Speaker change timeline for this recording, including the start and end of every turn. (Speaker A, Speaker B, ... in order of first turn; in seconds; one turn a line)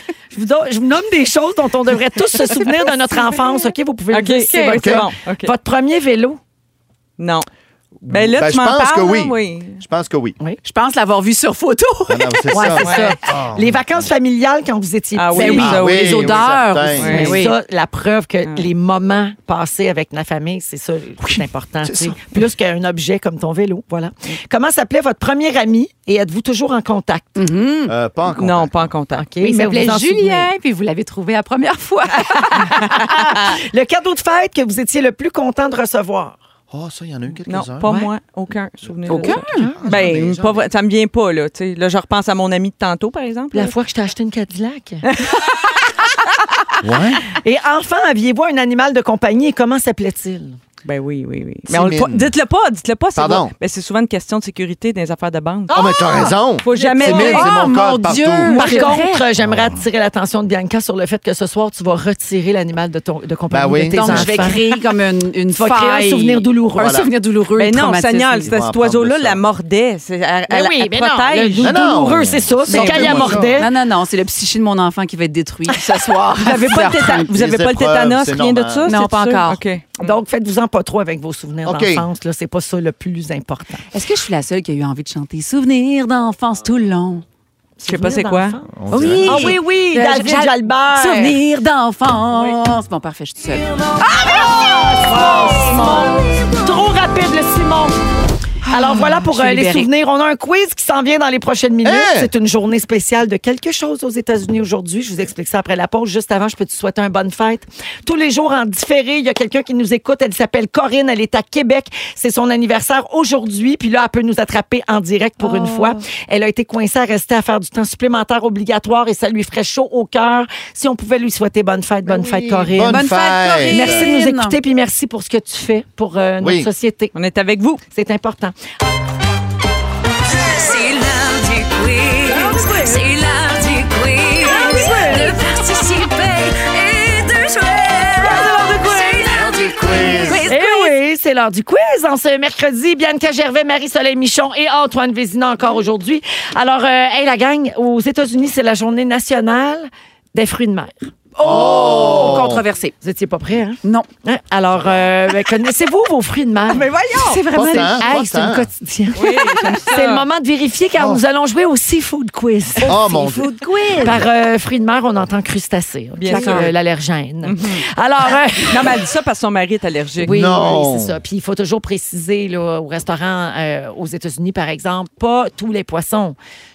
Speaker A: 0.3-6.4
Speaker B: 2.6-3.7
Speaker C: 4.1-5.5
Speaker B: 4.4-4.8
Speaker D: 4.8-5.0
Speaker C: 7.2-7.5
Speaker D: 8.0-10.4
Speaker C: 8.1-9.8
Speaker B: 10.6-13.1
Speaker D: 12.1-14.1
Speaker A: 12.5-16.0
Speaker C: 15.1-17.4
Speaker B: 15.3-17.5
Speaker D: 15.3-17.4
Speaker A: 17.0-27.4
Speaker D: 21.2-22.2
Speaker B: 27.4-27.9
Speaker D: 27.8-29.0
Speaker C: 28.3-29.2
Speaker A: 29.1-30.5
Speaker B: 29.4-33.6
Speaker A: 32.3-36.4
Speaker D: 36.7-37.9
Speaker C: 37.5-43.7
Speaker D: 38.8-40.6
Speaker B: 39.1-39.7
Speaker A: 39.3-40.2
Speaker A: 43.5-45.0
Speaker C: 45.0-45.9
Speaker D: 46.8-47.2
Speaker A: 47.3-50.6
Speaker C: 50.8-55.7
Speaker D: 51.7-52.3
Speaker D: 53.1-53.5
Speaker D: 55.7-58.8
Speaker A: 55.7-56.3
Speaker B: 55.8-59.3
Speaker C: 56.6-57.5
Speaker C: 58.4-58.9
Speaker A: 58.5-64.6
Speaker D: 59.4-59.8
Speaker D: 63.5-64.6
Speaker B: 63.9-68.5
Speaker A: 65.5-67.0
Speaker D: 66.8-67.1
Speaker C: 67.5-71.8
Speaker D: 68.4-69.4
Speaker A: 70.5-73.7
Speaker D: 71.6-73.7
Speaker C: 72.7-73.4
Speaker B: 72.7-77.3
Speaker C: 76.4-80.2
Speaker D: 77.2-78.9
Speaker B: 78.8-79.6
Speaker A: 80.0-83.8
Speaker D: 81.6-82.1
Speaker B: 83.9-87.2
Speaker A: 87.8-91.4
Speaker C: 87.8-88.6
Speaker D: 88.7-89.6
Speaker B: 88.9-93.7
Speaker A: 93.7-98.0
Speaker C: 95.3-95.6
Speaker B: 95.3-95.9
Speaker B: 98.6-99.9
Speaker A: 98.7-123.0
Speaker D: 101.8-102.3
Speaker B: 115.4-116.0
Speaker D: 122.0-124.1
Speaker B: 122.8-124.6
Speaker A: 123.7-127.1
Speaker D: 126.4-126.7
Speaker C: 127.1-127.8
Speaker A: 127.9-128.5
Speaker E: 130.3-140.6
Speaker A: 134.6-135.1
Speaker C: 134.8-135.1
Speaker A: 138.3-138.7
Speaker D: 139.3-140.5
Speaker C: 140.3-140.7
Speaker A: 140.4-152.4
Speaker B: 151.4-152.9
Speaker D: 151.4-152.6
Speaker A: 153.0-169.1
Speaker B: 153.8-154.1
Speaker D: 154.7-155.1
Speaker C: 156.7-157.4
Speaker D: 157.5-158.7
Speaker B: 157.5-157.9
Speaker C: 159.1-160.2
Speaker D: 160.9-161.2
Speaker D: 162.8-164.3
Speaker B: 162.8-164.1
Speaker C: 166.2-166.7
Speaker B: 166.3-166.7
Speaker C: 167.4-167.8
Speaker C: 168.7-170.6
Speaker D: 170.2-171.2
Speaker A: 170.2-176.4